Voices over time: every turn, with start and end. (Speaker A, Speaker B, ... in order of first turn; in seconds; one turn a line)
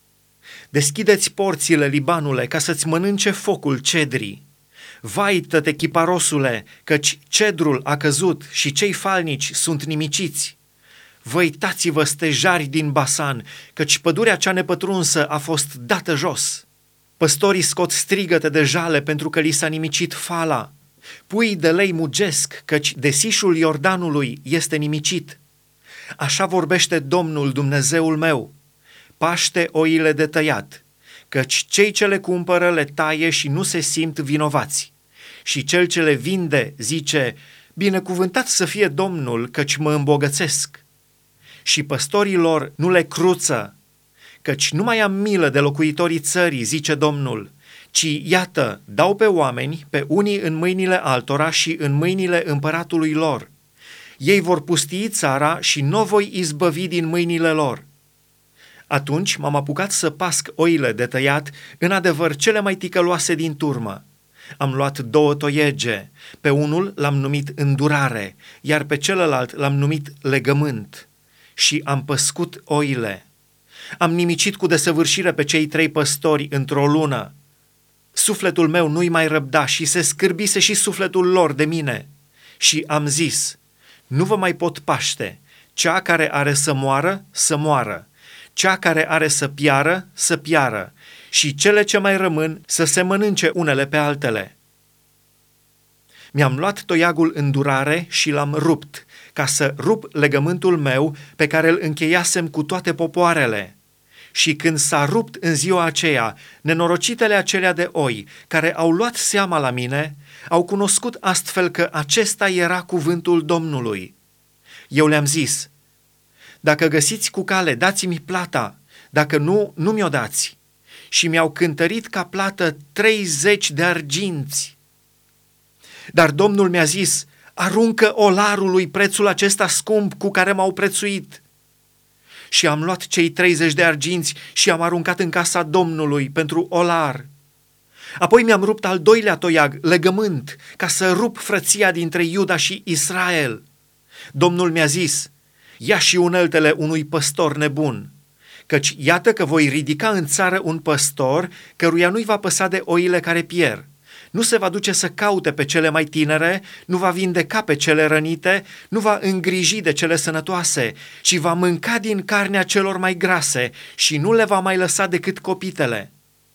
Speaker A: 0.7-4.4
Speaker A: 5.0-10.6
Speaker A: 11.2-16.6
Speaker A: 17.2-20.7
Speaker A: 21.3-25.4
Speaker A: 26.2-28.5
Speaker A: 29.2-34.9
Speaker A: 35.4-40.8
Speaker A: 41.6-43.7
Speaker A: 44.4-53.5
Speaker A: 54.2-57.8
Speaker A: 58.9-64.0
Speaker A: 64.6-73.2
Speaker A: 74.0-77.3
Speaker A: 78.1-82.1
Speaker A: 82.6-83.6
Speaker A: 84.1-94.5
Speaker A: 96.3-103.7
Speaker A: 104.3-114.1
Speaker A: 114.9-115.7
Speaker A: 116.6-120.6
Speaker A: 121.1-124.8
Speaker A: 126.1-131.4
Speaker A: 132.5-137.3
Speaker A: 138.2-143.6
Speaker A: 144.3-148.1
Speaker A: 148.7-166.1